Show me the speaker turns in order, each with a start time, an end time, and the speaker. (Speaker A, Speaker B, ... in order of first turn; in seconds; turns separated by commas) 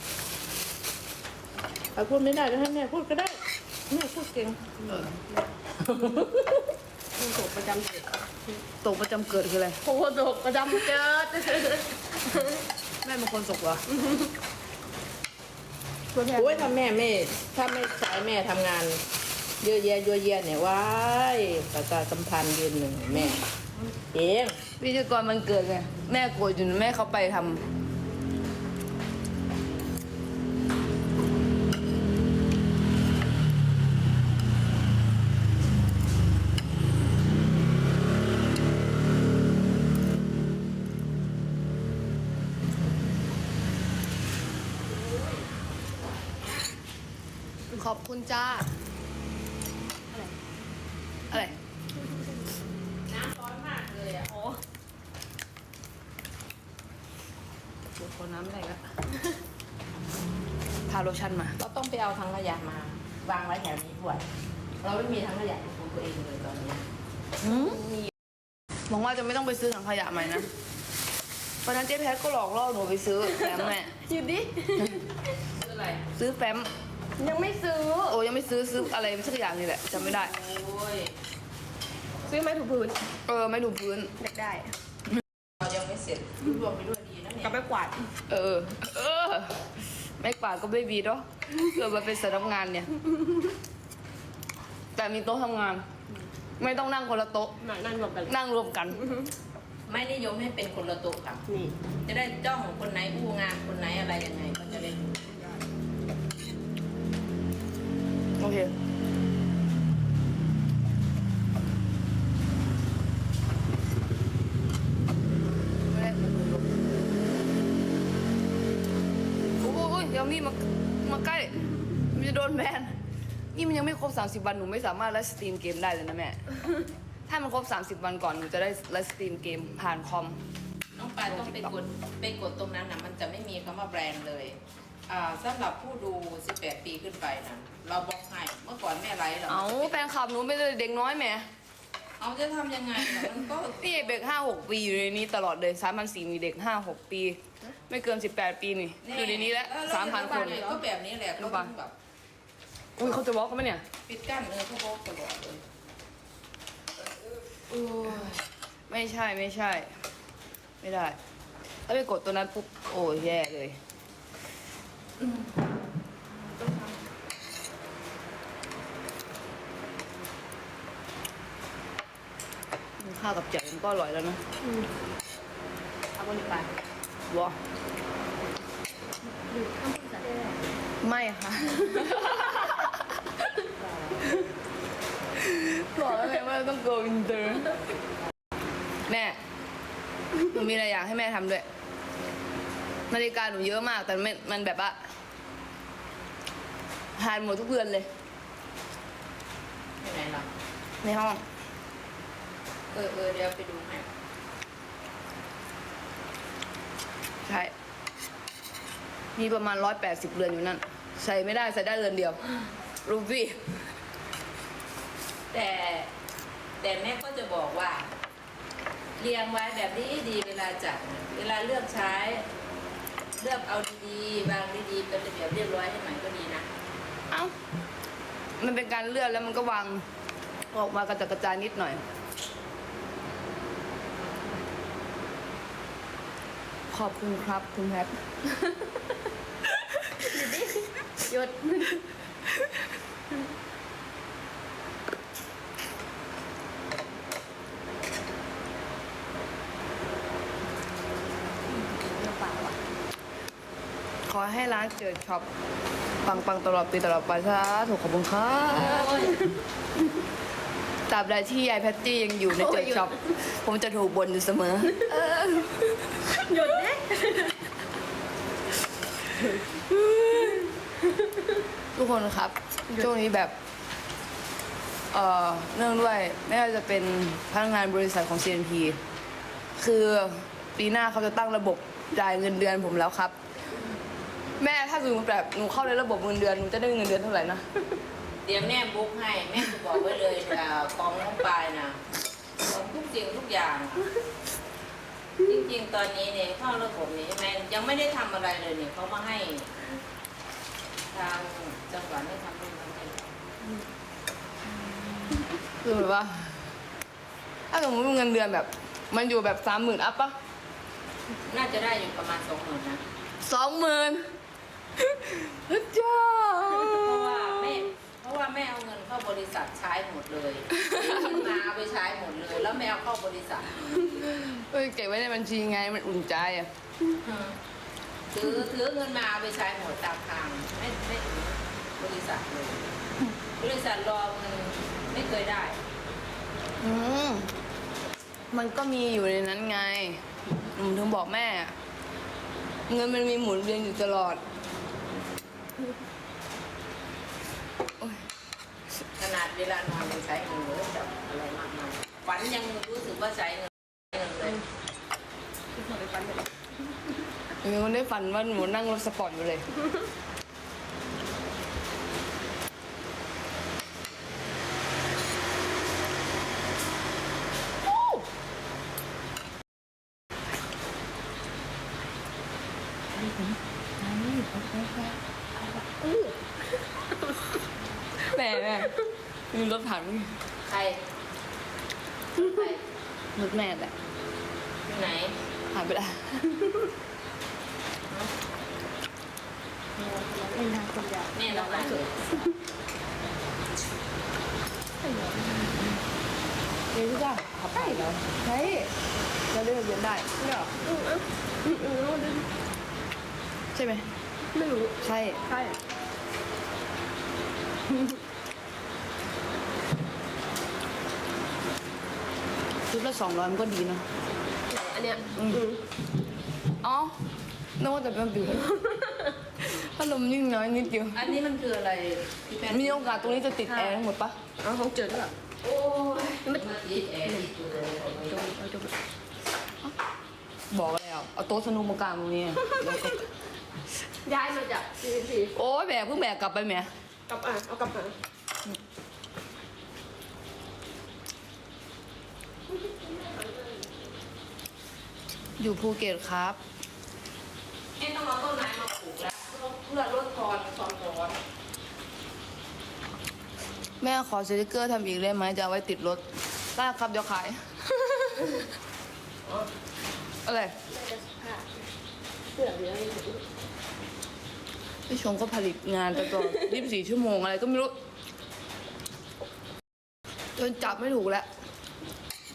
Speaker A: 1.9-4.9, Speaker A: 5.8-6.7, Speaker B: 7.2-8.6, Speaker C: 8.8-9.8, Speaker B: 9.8-12.6, Speaker C: 13.0-13.8, Speaker B: 14.0-14.3, Speaker B: 16.1-16.7, Speaker A: 16.3-19.0, Speaker A: 19.6-23.4, Speaker A: 24.1-24.6, Speaker C: 24.8-27.6, Speaker A: 44.8-46.7, Speaker C: 47.8-48.7, Speaker B: 50.1-50.4, Speaker A: 53.1-54.6, Speaker C: 58.0-58.8, Speaker C: 60.9-61.6, Speaker A: 61.6-64.3, Speaker A: 64.8-66.9, Speaker B: 67.4-68.1, Speaker C: 67.5-67.8, Speaker C: 68.9-70.5, Speaker C: 71.7-73.9, Speaker B: 73.4-75.3, Speaker A: 75.6-76.0, Speaker C: 76.2-76.7, Speaker B: 77.2-78.2, Speaker C: 78.1-80.3, Speaker A: 80.0-81.2, Speaker B: 82.3-83.0, Speaker C: 83.3-84.1, Speaker B: 84.2-84.7, Speaker A: 85.6-87.6, Speaker B: 87.4-88.1, Speaker C: 88.3-92.9, Speaker C: 95.0-95.9, Speaker C: 96.6-97.5, Speaker B: 97.6-98.3, Speaker C: 98.3-99.0, Speaker B: 99.0-99.3, Speaker A: 99.9-101.4, Speaker B: 101.5-101.7, Speaker A: 102.1-105.2, Speaker C: 108.4-108.7, Speaker C: 115.9-116.8, Speaker C: 119.6-123.0, Speaker C: 123.5-126.4, Speaker C: 127.3-130.4, Speaker A: 130.9-134.6, Speaker C: 131.3-131.7, Speaker A: 135.1-140.1, Speaker C: 139.5-141.5, Speaker A: 142.2-144.2, Speaker C: 143.8-150.8, Speaker A: 149.0-152.0, Speaker C: 151.4-151.7, Speaker C: 153.0-153.8, Speaker A: 154.1-155.6, Speaker C: 157.8-158.3, Speaker A: 158.0-158.3, Speaker C: 158.9-159.9, Speaker C: 160.8-161.2, Speaker C: 161.9-163.8, Speaker B: 166.6-166.9, Speaker C: 173.0-174.4, Speaker B: 174.6-174.9, Speaker A: 176.2-176.7, Speaker C: 177.3-177.6, Speaker B: 179.3-180.6, Speaker C: 181.0-182.9, Speaker A: 183.8-184.3, Speaker C: 185.4-187.8, Speaker C: 189.1-189.4, Speaker C: 190.5-191.6, Speaker C: 193.1-195.0, Speaker C: 197.2-198.1, Speaker A: 200.0-200.5, Speaker C: 201.0-201.4, Speaker A: 202.9-204.1, Speaker C: 207.5-207.7, Speaker C: 209.4-212.4, Speaker C: 213.1-213.7, Speaker A: 215.5-216.1, Speaker A: 216.8-218.1, Speaker A: 219.2-222.5, Speaker A: 223.3-226.7, Speaker C: 228.6-230.0, Speaker C: 230.7-232.0, Speaker C: 236.9-238.2, Speaker B: 238.5-239.0, Speaker B: 240.2-242.0, Speaker B: 251.8-252.8, Speaker C: 254.3-255.5, Speaker C: 256.2-259.1, Speaker B: 258.8-259.6, Speaker C: 261.1-265.1, Speaker B: 262.6-263.3, Speaker B: 264.9-267.7, Speaker C: 269.9-270.7, Speaker B: 271.0-271.6, Speaker C: 271.9-273.5, Speaker C: 275.1-279.0, Speaker C: 279.8-283.4, Speaker C: 284.6-287.6, Speaker A: 288.4-292.0, Speaker A: 292.6-294.1, Speaker A: 295.4-300.0, Speaker A: 301.1-303.4, Speaker C: 305.8-306.7, Speaker C: 307.7-310.3, Speaker A: 311.4-313.0, Speaker C: 313.4-314.3, Speaker C: 315.0-317.8, Speaker A: 316.9-324.2, Speaker C: 320.7-321.4, Speaker C: 324.2-326.7, Speaker A: 327.2-327.6, Speaker A: 328.3-332.9, Speaker A: 333.6-335.8, Speaker C: 336.8-337.5, Speaker C: 338.5-340.2, Speaker C: 340.8-341.7, Speaker C: 342.9-344.4, Speaker A: 349.2-354.6, Speaker B: 355.8-356.5, Speaker C: 357.6-359.6, Speaker A: 374.0-374.7, Speaker C: 374.6-375.1, Speaker B: 376.0-377.4, Speaker C: 378.2-378.9, Speaker C: 379.5-380.4, Speaker A: 380.6-381.0, Speaker A: 382.3-382.8, Speaker C: 383.4-383.9, Speaker A: 384.9-385.4, Speaker C: 385.7-386.4, Speaker A: 389.9-390.8, Speaker B: 390.6-392.6, Speaker A: 391.3-392.5, Speaker B: 395.0-396.0, Speaker B: 396.9-398.1, Speaker C: 397.4-398.9, Speaker C: 399.5-400.3, Speaker B: 400.4-402.5, Speaker C: 403.8-404.1, Speaker B: 404.5-405.8, Speaker C: 405.0-405.4, Speaker C: 412.9-414.0, Speaker B: 414.7-415.8, Speaker C: 415.4-415.6, Speaker C: 416.8-417.2, Speaker C: 417.8-418.7, Speaker B: 418.7-419.4, Speaker C: 419.6-421.2, Speaker A: 421.1-423.6, Speaker C: 422.7-424.3, Speaker B: 423.7-423.9, Speaker B: 424.6-425.3, Speaker A: 425.6-428.5, Speaker B: 428.3-428.9, Speaker C: 430.7-433.3, Speaker B: 432.6-433.1, Speaker B: 434.2-435.5, Speaker C: 435.6-436.9, Speaker B: 437.3-438.1, Speaker B: 442.7-443.9, Speaker C: 445.6-446.6, Speaker A: 448.0-451.4, Speaker C: 454.0-456.2, Speaker C: 456.8-457.8, Speaker C: 460.5-460.7, Speaker B: 460.9-461.8, Speaker B: 462.6-463.4, Speaker C: 465.1-467.9, Speaker C: 470.6-471.5